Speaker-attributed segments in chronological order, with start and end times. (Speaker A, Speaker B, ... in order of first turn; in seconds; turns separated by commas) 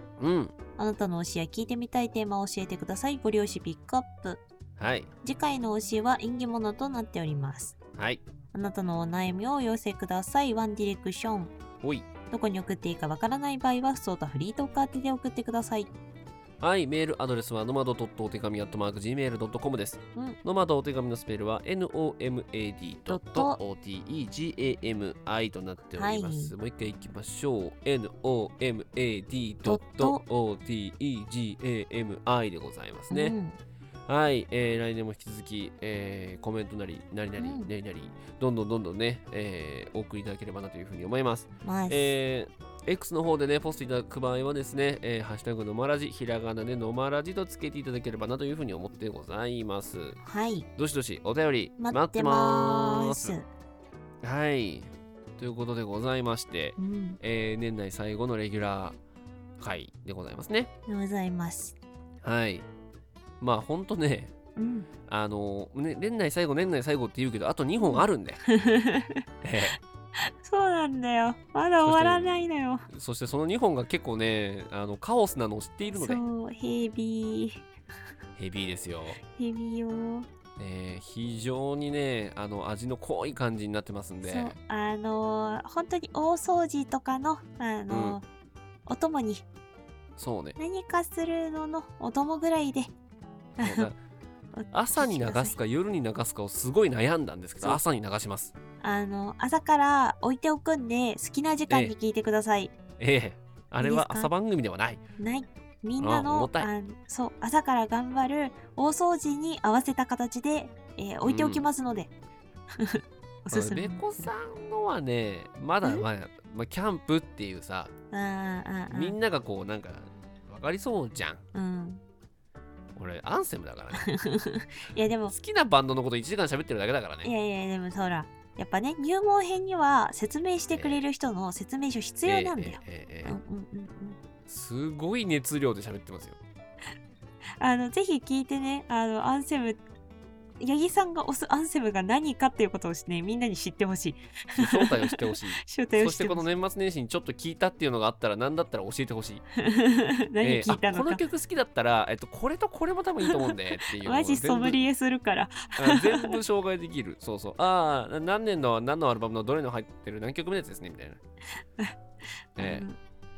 Speaker A: 0.2-0.5, Speaker B: 0.8-4.4, Speaker A: 4.8-5.1, Speaker B: 5.2-7.7, Speaker A: 8.0-8.2, Speaker B: 8.5-11.5, Speaker A: 11.8-12.1, Speaker B: 12.3-15.9, Speaker A: 16.6-33.3, Speaker B: 23.1-23.6, Speaker B: 26.0-26.5, Speaker B: 29.6-30.2, Speaker B: 33.1-33.6, Speaker A: 34.1-50.2, Speaker B: 37.4-37.7, Speaker B: 41.6-42.1, Speaker B: 50.2-50.6, Speaker A: 50.8-53.3, Speaker B: 51.8-53.5, Speaker A: 54.2-59.0, Speaker B: 56.8-57.2, Speaker A: 59.6-60.7, Speaker B: 60.9-61.7, Speaker A: 62.2-62.6, Speaker A: 63.4-64.3, Speaker B: 64.5-64.9, Speaker A: 65.1-68.4, Speaker B: 67.8-72.8, Speaker A: 69.4-69.8, Speaker A: 71.8-72.3, Speaker A: 72.9-76.2, Speaker B: 75.9-77.6, Speaker A: 78.4-79.2, Speaker B: 79.3-80.3, Speaker A: 80.6-84.5, Speaker B: 84.2-88.2, Speaker A: 87.9-88.2, Speaker B: 88.8-89.4, Speaker A: 90.2-90.6, Speaker B: 90.6-92.9, Speaker B: 93.6-93.9, Speaker A: 93.6-94.0, Speaker B: 94.5-95.6, Speaker A: 94.7-98.5, Speaker B: 98.8-102.7, Speaker A: 101.7-101.9, Speaker A: 103.0-105.0, Speaker B: 103.8-104.3, Speaker B: 105.2-112.1, Speaker A: 106.0-106.7, Speaker A: 111.2-111.7, Speaker B: 112.8-114.3, Speaker A: 113.5-117.9, Speaker B: 118.1-119.2, Speaker A: 118.9-121.4, Speaker B: 121.5-122.0, Speaker A: 122.9-124.1, Speaker B: 124.0-125.3, Speaker A: 125.3-127.3, Speaker B: 127.2-134.2, Speaker A: 130.7-131.0, Speaker A: 132.2-133.4, Speaker A: 134.5-136.4, Speaker B: 137.6-139.8, Speaker B: 140.6-146.4, Speaker A: 144.6-149.4, Speaker B: 149.6-151.2, Speaker A: 150.4-154.8, Speaker B: 154.0-156.3, Speaker A: 155.8-161.2, Speaker B: 162.6-163.0, Speaker A: 162.6-162.8